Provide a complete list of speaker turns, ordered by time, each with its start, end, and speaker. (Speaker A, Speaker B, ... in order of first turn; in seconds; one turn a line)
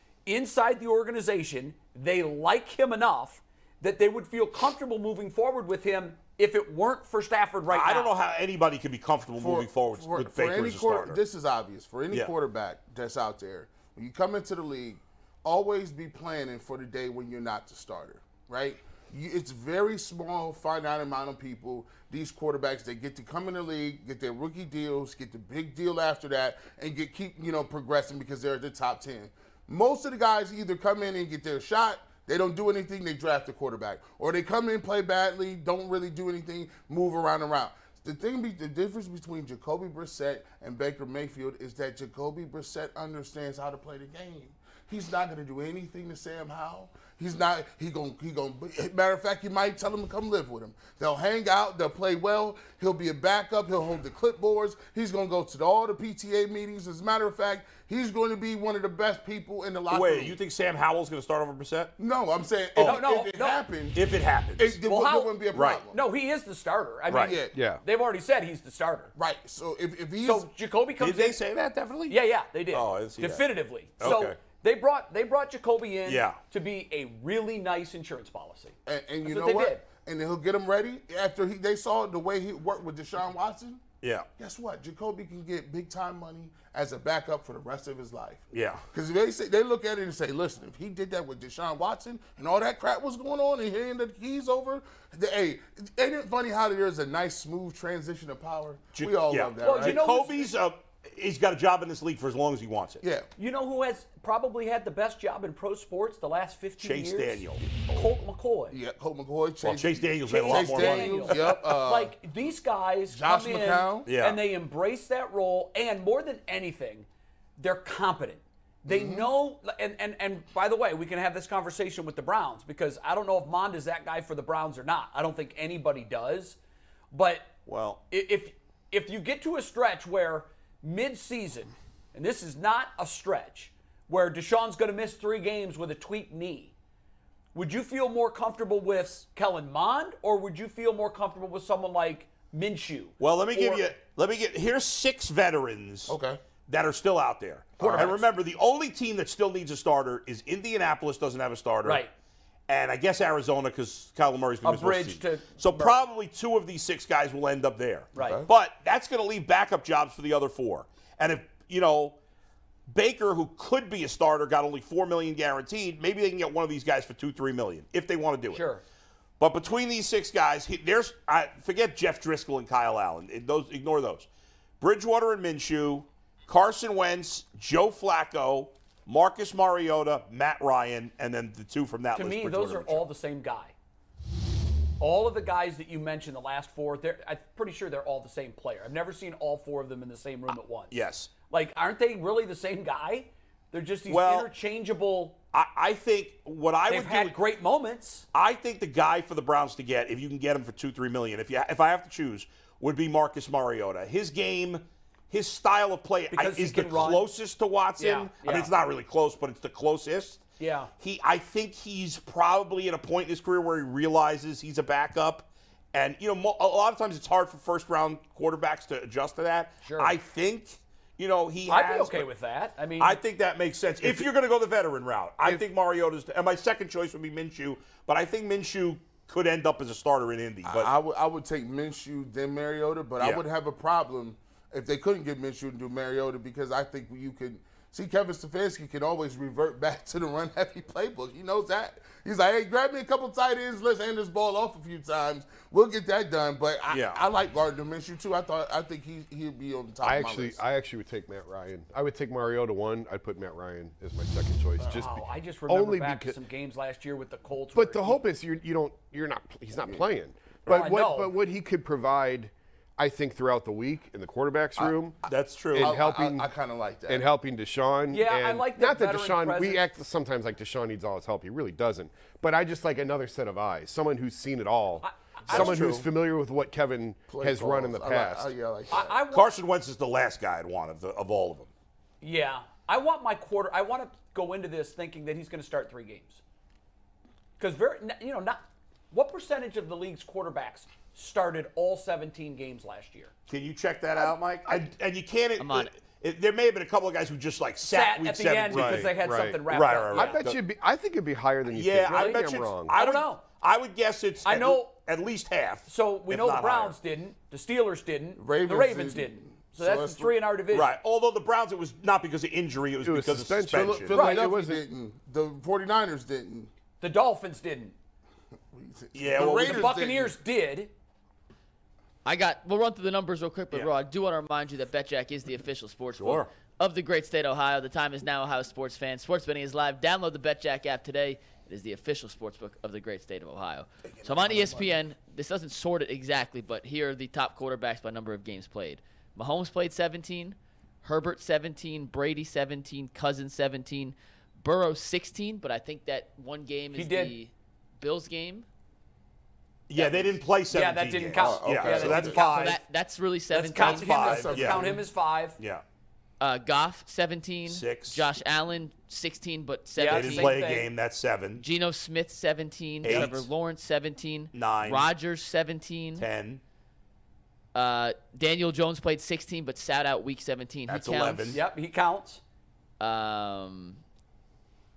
Speaker A: 0.3-8.1
Speaker B: 7.7-11.2
Speaker C: 9.4-60.4
Speaker B: 59.9-61.9
Speaker C: 62.0-64.0
Speaker B: 62.8-63.0
Speaker A: 62.8-63.6
Speaker B: 64.0-64.8
Speaker C: 64.6-66.0
Speaker A: 64.8-69.1
Speaker B: 65.5-65.8
Speaker B: 67.1-67.3
Speaker C: 67.2-67.6
Speaker D: 67.5-67.8
Speaker C: 69.2-70.5
Speaker A: 70.2-71.4
Speaker B: 71.0-72.2
Speaker A: 72.1-79.8
Speaker B: 72.7-73.5
Speaker B: 74.0-74.4
Speaker B: 76.1-76.4
Speaker C: 78.9-83.8
Speaker B: 84.0-84.3
Speaker C: 84.4-100.0
Speaker B: 88.5-88.8
Speaker B: 99.0-103.0
Speaker A: 99.6-100.5
Speaker C: 103.0-103.3
Speaker A: 103.4-108.8
Speaker B: 106.8-108.1
Speaker C: 108.7-112.2
Speaker B: 109.6-111.6
Speaker A: 110.3-126.6
Speaker C: 113.1-114.1
Speaker B: 114.1-114.4
Speaker C: 118.9-119.3
Speaker A: 127.1-127.5
Speaker B: 127.7-128.0
Speaker A: 128.1-136.7
Speaker A: 137.5-143.9
Speaker B: 143.2-146.2
Speaker C: 146.1-146.4
Speaker B: 146.7-152.0
Speaker A: 147.8-148.2
Speaker C: 147.8-148.2
Speaker A: 151.8-152.1
Speaker B: 152.7-162.2
Speaker A: 154.6-156.0
Speaker A: 158.2-158.4
Speaker C: 158.2-158.5
Speaker B: 162.9-168.6
Speaker A: 168.5-168.8
Speaker B: 169.4-174.3
Speaker B: 174.8-183.1
Speaker A: 182.2-183.7
Speaker A: 185.0-195.4
Speaker B: 190.9-191.3
Speaker B: 194.1-194.5
Speaker B: 195.5-197.4
Speaker A: 196.9-198.3
Speaker B: 198.3-210.4
Speaker A: 206.3-207.3
Speaker A: 208.0-208.7
Speaker A: 210.6-210.9
Speaker B: 211.0-222.3
Speaker A: 219.8-220.1
Speaker A: 221.7-223.2
Speaker B: 223.0-230.9
Speaker C: 230.7-250.6
Speaker B: 246.9-247.2
Speaker D: 250.0-256.4
Speaker A: 254.9-258.2
Speaker D: 257.8-265.2
Speaker A: 260.7-261.3
Speaker C: 264.8-267.2
Speaker B: 265.3-266.0
Speaker D: 265.7-266.5
Speaker D: 267.1-278.5
Speaker A: 268.1-269.9
Speaker A: 275.0-276.0
Speaker B: 275.5-276.1
Speaker C: 277.3-279.2
Speaker A: 278.9-279.5
Speaker B: 279.3-281.7
Speaker A: 282.2-286.4
Speaker A: 287.6-293.3
Speaker B: 293.5-299.1
Speaker E: 295.6-295.9
Speaker A: 297.8-300.4
Speaker D: 298.7-302.9
Speaker B: 299.7-300.6
Speaker B: 301.7-307.0
Speaker A: 302.1-303.4
Speaker A: 304.4-304.9
Speaker A: 305.9-310.9
Speaker C: 308.4-310.4
Speaker B: 310.7-314.1
Speaker D: 313.0-314.8
Speaker C: 313.7-316.7
Speaker A: 314.1-314.5
Speaker A: 317.0-317.9
Speaker C: 318.7-320.4
Speaker B: 319.1-319.9
Speaker A: 319.4-320.9
Speaker E: 322.2-348.7
Speaker B: 326.2-326.5
Speaker C: 334.1-335.0
Speaker A: 346.9-347.4
Speaker B: 349.9-352.8
Speaker A: 350.7-352.8
Speaker C: 351.4-352.4
Speaker E: 352.3-354.5
Speaker A: 353.5-355.6
Speaker B: 353.8-355.0
Speaker C: 354.2-355.1
Speaker B: 355.6-355.8
Speaker E: 356.4-360.8
Speaker B: 357.7-358.2
Speaker A: 359.9-360.9
Speaker B: 360.1-361.6
Speaker E: 361.6-366.3
Speaker B: 363.0-363.5
Speaker B: 364.5-365.1
Speaker B: 366.2-366.6
Speaker E: 367.7-371.6
Speaker B: 370.9-371.6
Speaker A: 371.5-372.4
Speaker E: 373.0-374.0